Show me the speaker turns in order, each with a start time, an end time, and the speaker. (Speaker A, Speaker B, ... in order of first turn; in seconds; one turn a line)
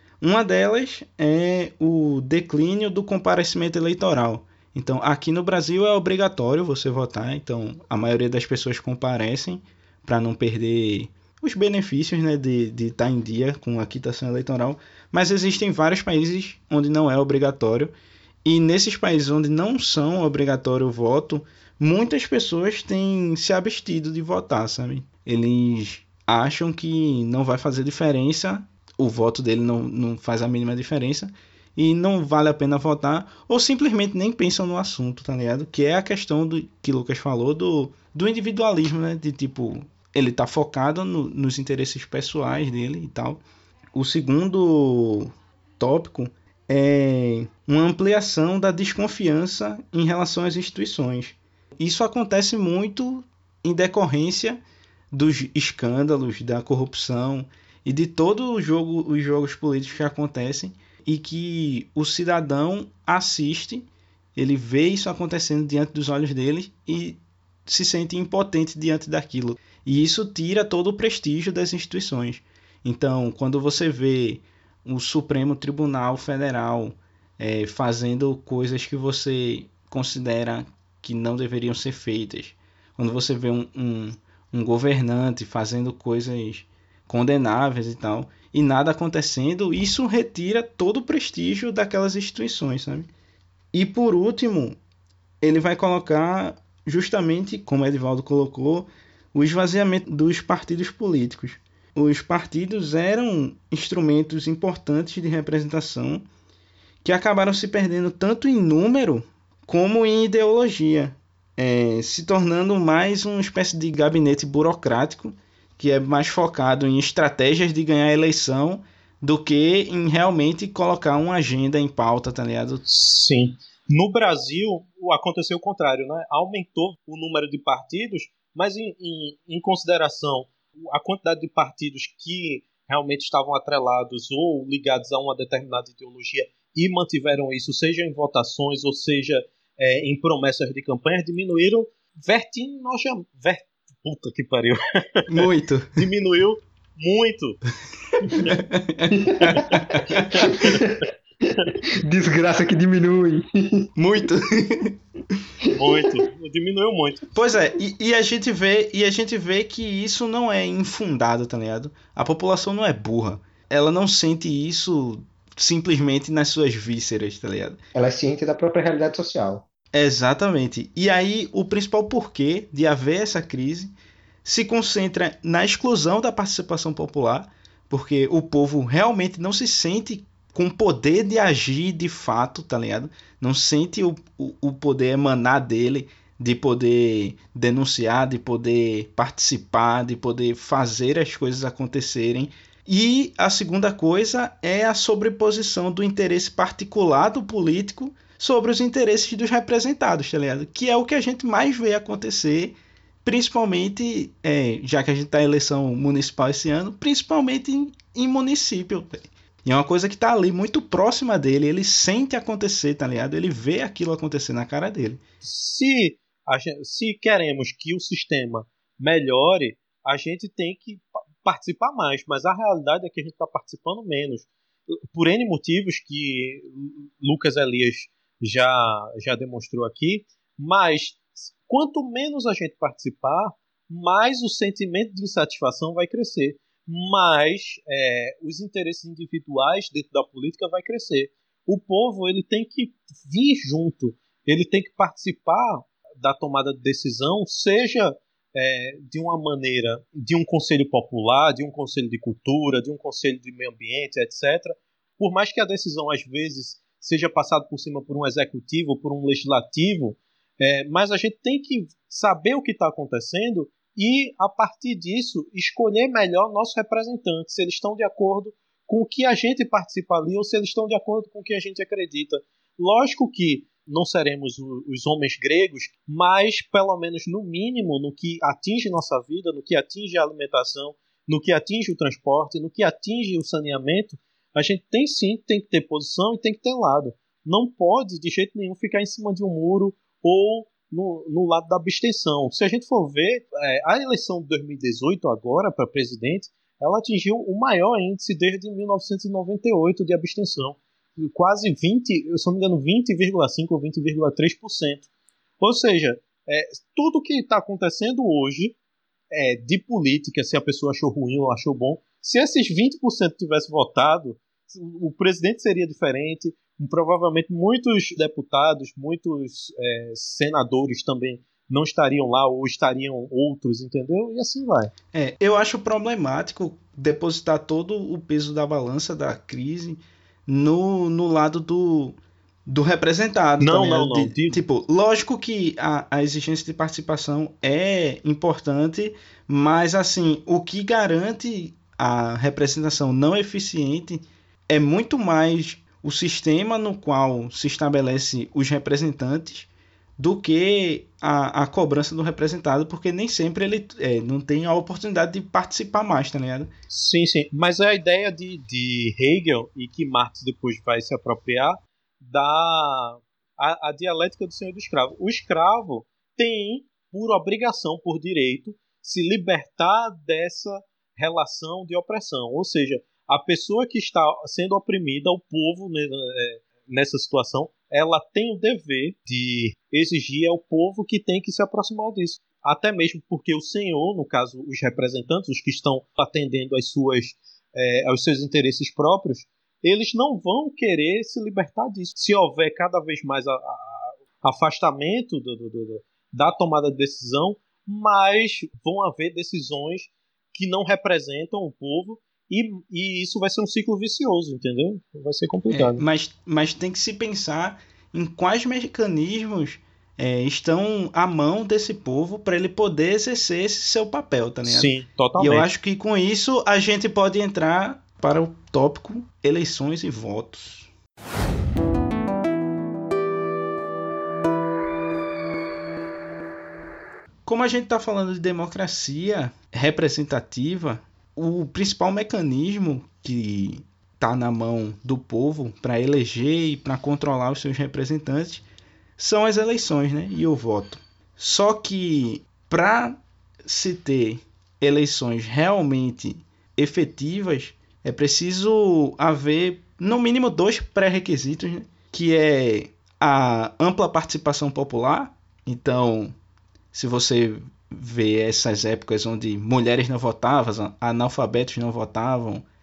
Speaker A: 0.2-17.9
Speaker A: 18.4-43.4
Speaker A: 43.9-54.6
Speaker A: 55.1-93.1
Speaker A: 93.7-94.8
Speaker A: 95.4-106.2
Speaker A: 107.0-122.8
Speaker B: 122.9-147.6
Speaker A: 145.3-146.0
Speaker B: 148.2-148.6
Speaker A: 148.4-150.5
Speaker C: 149.1-149.7
Speaker B: 149.4-150.9
Speaker C: 150.3-153.9
Speaker A: 154.0-155.0
Speaker C: 155.6-155.9
Speaker B: 155.7-157.2
Speaker A: 157.3-167.8
Speaker C: 167.9-169.7
Speaker A: 169.9-173.9
Speaker A: 174.4-215.2
Speaker B: 215.4-305.1
Speaker B: 305.6-308.8
Speaker B: 309.3-324.9
Speaker A: 325.1-332.1
Speaker A: 332.7-356.7
Speaker B: 333.6-334.6
Speaker B: 356.9-406.0
Speaker A: 405.7-420.9
Speaker B: 414.6-415.7
Speaker A: 427.4-438.6
Speaker A: 439.2-456.3
Speaker A: 456.9-462.6